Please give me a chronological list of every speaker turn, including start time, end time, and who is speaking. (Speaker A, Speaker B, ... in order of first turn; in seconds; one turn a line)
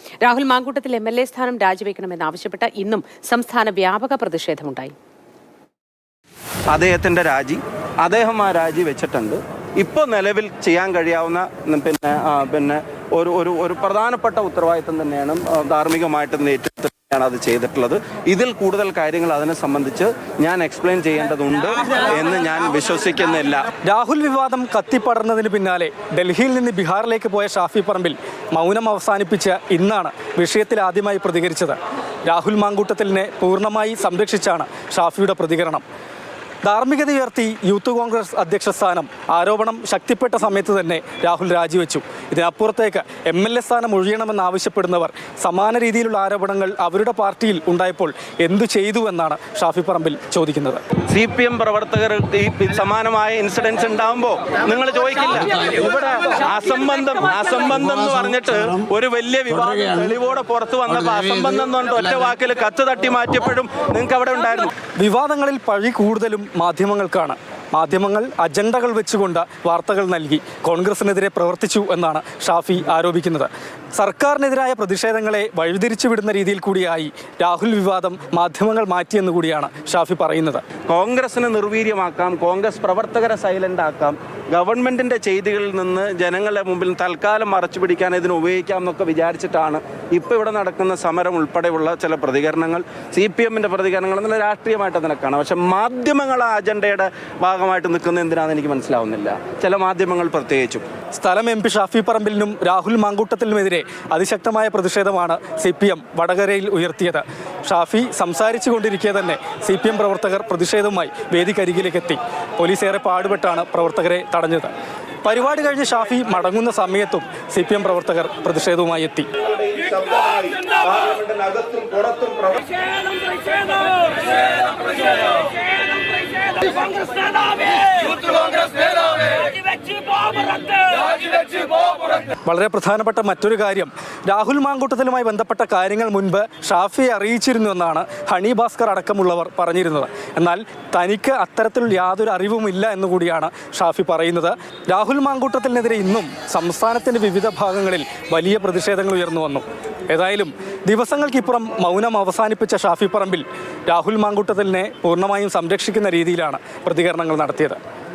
Speaker A: 0.2-4.9
Speaker B: 6.7-23.6
Speaker C: 23.8-35.8
Speaker C: 36.6-50.8
Speaker B: 51.1-64.7
Speaker C: 65.0-80.6
Speaker B: 80.9-100.8
Speaker C: 101.2-114.7
Speaker C: 115.2-119.3
Speaker B: 119.4-124.7
Speaker B: 128.3-128.6
Speaker C: 132.4-157.8